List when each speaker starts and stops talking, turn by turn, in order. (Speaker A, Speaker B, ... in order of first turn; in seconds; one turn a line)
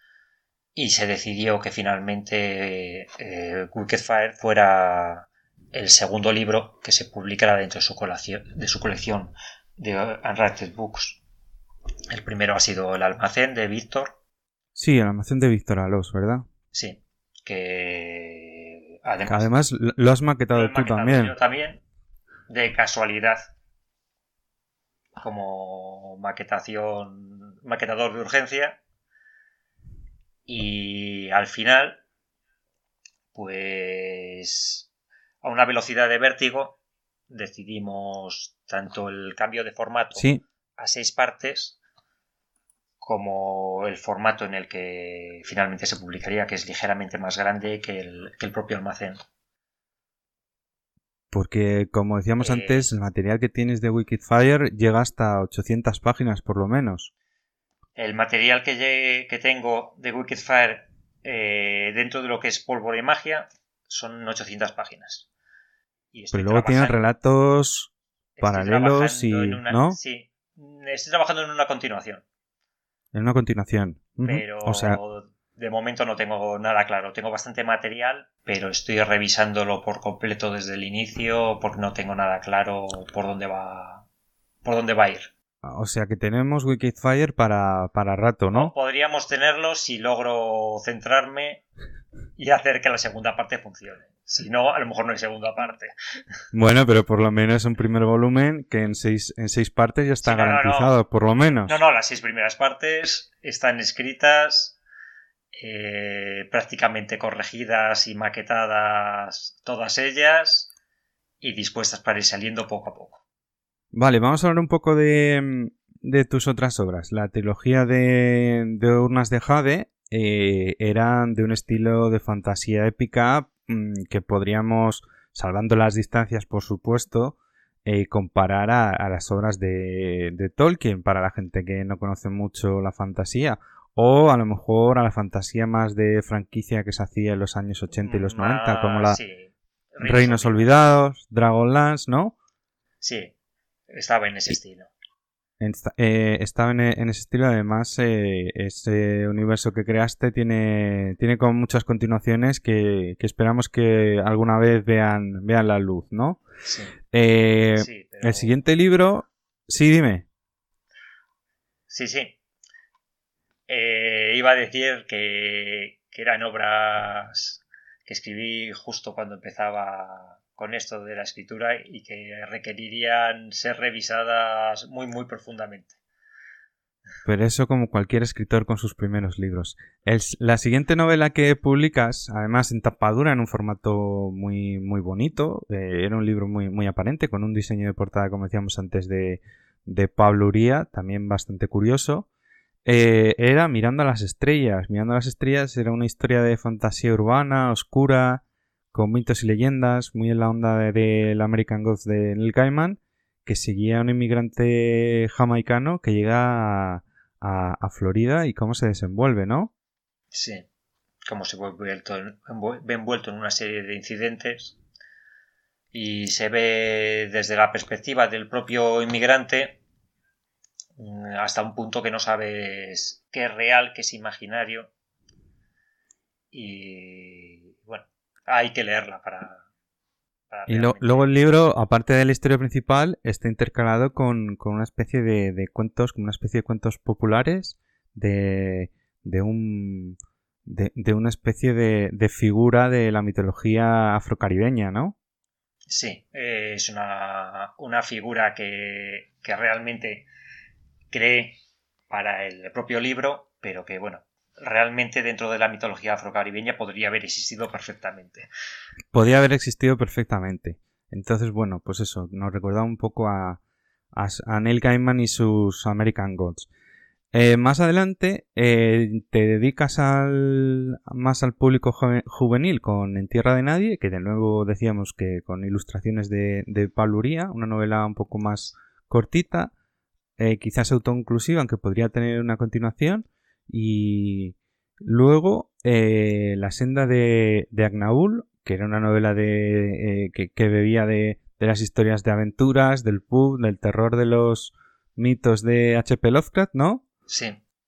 Speaker A: 0.8-11.2
Speaker A: 12.1-14.2
Speaker B: 14.8-16.4
Speaker A: 16.7-19.5
Speaker B: 19.3-21.3
Speaker A: 20.5-21.8
Speaker A: 22.5-23.5
Speaker A: 25.2-28.8
Speaker A: 30.5-32.0
Speaker A: 33.3-34.9
Speaker A: 35.4-36.8
Speaker A: 37.3-40.3
Speaker B: 40.1-40.4
Speaker A: 40.8-41.8
Speaker A: 43.0-49.2
Speaker B: 51.3-57.1
Speaker A: 52.4-53.0
Speaker A: 58.0-65.3
Speaker A: 66.1-67.0
Speaker B: 66.3-70.0
Speaker A: 68.4-72.2
Speaker B: 73.1-75.0
Speaker A: 74.2-84.0
Speaker A: 84.6-85.3
Speaker B: 85.6-88.7
Speaker A: 88.5-91.6
Speaker A: 92.4-95.9
Speaker B: 96.5-101.8
Speaker A: 100.2-100.9
Speaker A: 101.7-104.8
Speaker A: 105.5-110.7
Speaker A: 111.4-113.2
Speaker B: 113.9-139.2
Speaker A: 137.9-140.7
Speaker B: 140.0-142.3
Speaker A: 143.0-143.3
Speaker A: 143.9-144.9
Speaker B: 145.6-156.4
Speaker A: 156.6-156.9
Speaker B: 157.1-160.2
Speaker A: 157.8-158.5
Speaker A: 161.9-162.4
Speaker A: 163.7-175.9
Speaker B: 177.2-192.3
Speaker B: 192.8-209.7
Speaker A: 210.3-210.7
Speaker A: 211.2-214.8
Speaker A: 215.9-219.8
Speaker A: 221.0-224.9
Speaker A: 226.5-229.6
Speaker A: 230.5-231.7
Speaker B: 230.7-245.1
Speaker A: 245.9-250.3
Speaker A: 251.1-251.6
Speaker A: 252.1-258.5
Speaker B: 259.1-263.6
Speaker B: 264.1-266.7
Speaker B: 267.3-279.7
Speaker B: 280.4-297.0
Speaker A: 297.3-297.6